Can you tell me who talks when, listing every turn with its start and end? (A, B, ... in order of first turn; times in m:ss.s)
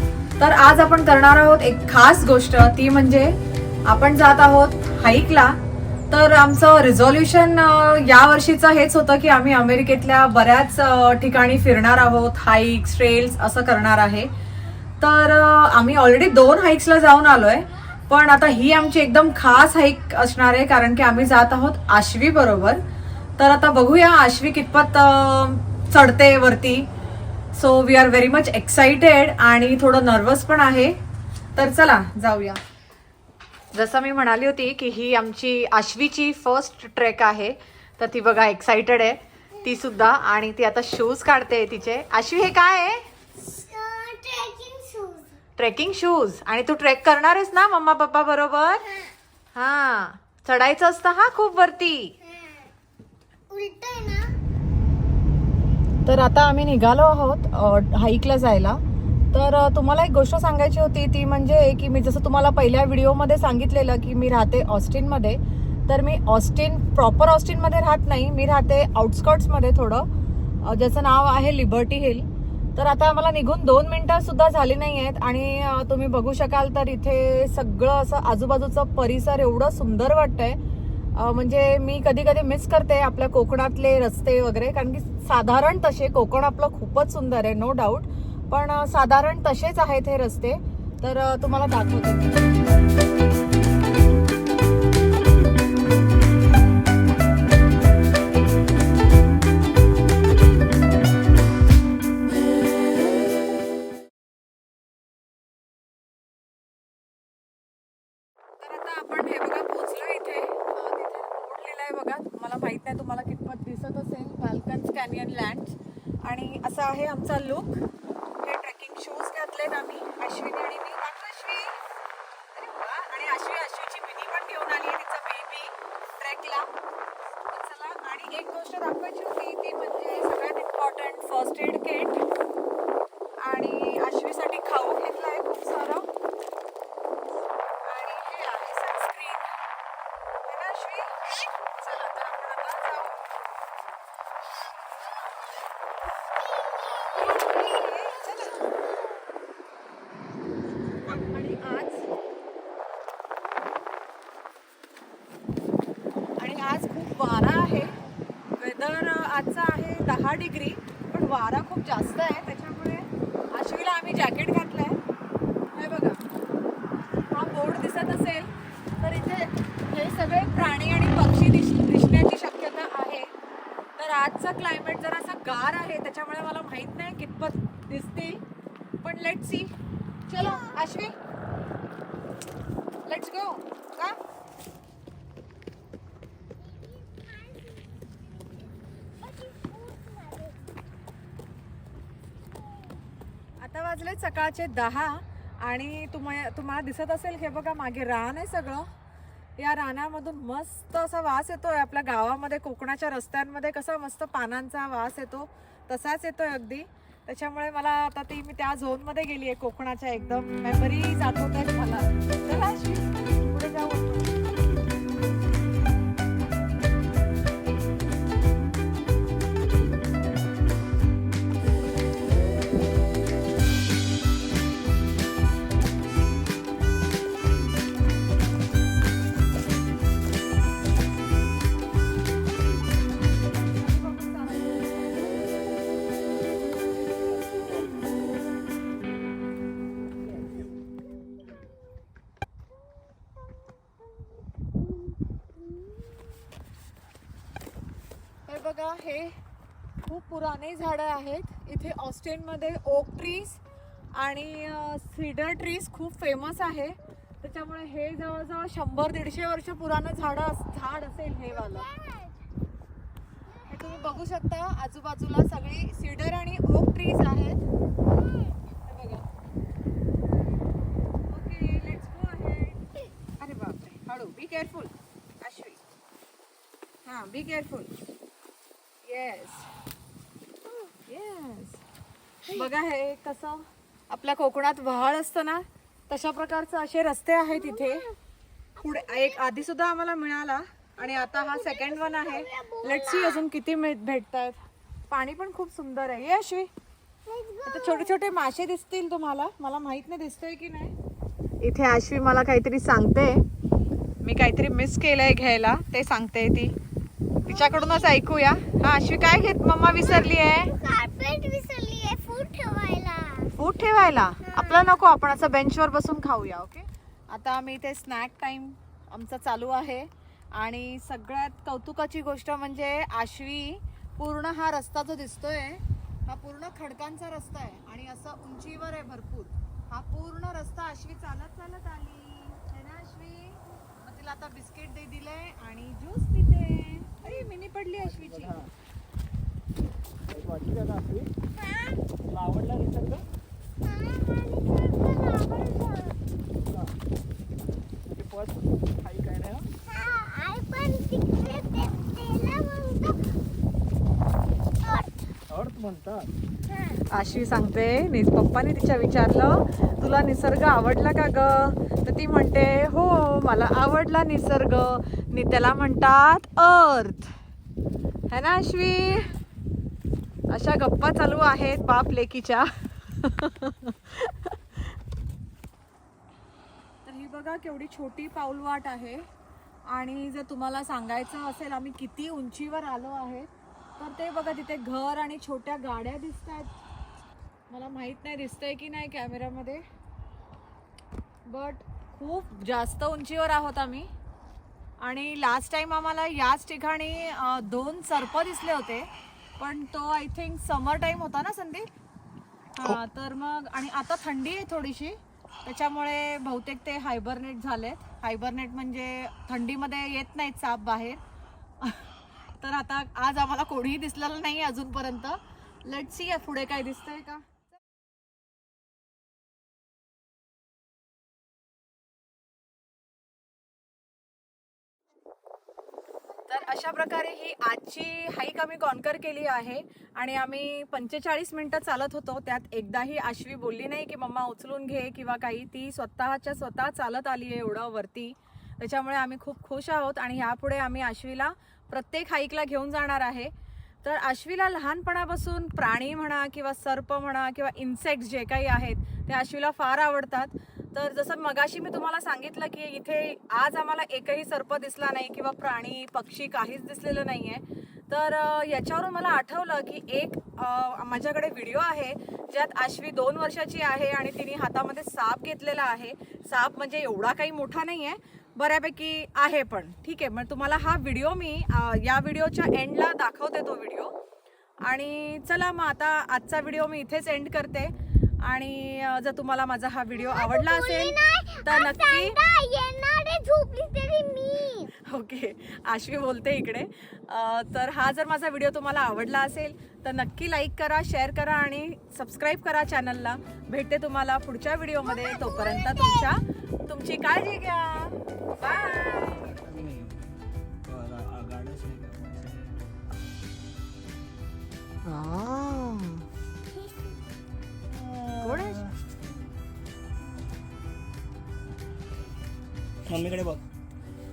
0:00.4-0:05.6 A
0:06.1-0:14.3 A
0:15.0-0:22.8 A
0:23.4-0:26.9 A
0:27.5-0:31.0 A
0:31.5-0:32.6 A
0:33.7-0:43.0 A
0:43.4-0:45.4 B
0:45.6-0:48.9 A
0:49.5-0:52.2 A
0:52.2-0:52.7 B
0:53.5-0:54.3 B
0:56.0-0:58.8 A
0:59.3-1:10.1 A
1:10.6-1:20.6 A
1:21.1-1:32.4 A
1:48.6-1:57.8 A
1:58.4-2:01.8 A
2:02.5-2:06.7 A
2:07.5-2:12.2 A
2:13.4-2:16.0 A
2:17.8-2:19.5 A
2:20.4-2:23.2 A
2:26.4-2:27.2 B
2:27.1-2:28.7 A
2:31.0-2:32.1 A
2:36.4-2:38.0 A
2:38.6-2:45.0 A
2:45.7-2:46.2 A
2:47.3-2:53.3 A
2:54.0-2:58.4 A
2:59.0-2:59.7 A
3:00.3-3:01.1 A
3:03.0-3:04.2 A
3:06.6-3:08.0 B
3:09.2-3:10.8 B
3:13.6-3:18.9 A
3:19.6-3:34.4 A
3:53.8-3:54.8 A
4:08.5-4:09.3 A
4:10.0-4:13.6 A
4:14.1-4:21.9 A
4:21.6-4:22.4 B
4:23.6-4:24.1 B
4:23.7-4:27.6 A
4:28.2-4:28.5 B
4:28.8-4:29.2 A
4:31.2-4:32.8 A
4:33.4-4:35.8 A
4:37.0-4:37.9 A
4:39.0-4:39.7 A
4:41.1-4:41.8 A
4:42.4-4:48.1 A
4:47.5-4:48.1 B
4:48.8-4:54.6 A
4:48.8-4:49.4 B
4:51.1-4:53.4 B
4:55.1-4:56.7 A
4:57.2-4:58.1 B
4:57.6-5:00.9 A
5:01.6-5:03.4 A
5:04.2-5:06.8 A
5:07.4-5:10.7 A
5:07.5-5:08.2 B
5:10.0-5:13.5 B
5:13.6-5:38.5 A
5:14.5-5:14.9 B
5:38.1-5:38.7 C
5:40.3-5:41.3 C
5:41.6-5:42.0 B
5:42.2-5:43.2 C
5:43.8-5:46.2 B
5:48.1-5:49.7 C
5:49.9-5:53.2 B
5:54.8-5:55.3 B
5:55.5-5:56.3 C
5:57.1-6:07.3 A
6:08.3-6:09.3 A
6:10.5-6:14.8 A
6:17.0-6:19.2 A
6:19.9-6:26.8 A
6:27.7-6:29.8 A
6:31.5-6:34.1 A
6:35.0-6:41.9 A
6:42.8-6:51.2 A
6:51.8-6:57.4 A
7:06.5-7:23.5 A
7:24.0-7:54.1 A
7:54.8-8:02.4 A
8:00.1-8:04.9 B
8:05.0-8:19.6 A
8:15.1-8:16.3 B
8:19.5-8:20.3 C
8:20.8-8:23.0 C
8:25.0-8:26.2 A
8:27.9-8:28.9 C
8:28.4-8:28.8 A
8:33.1-8:33.6 C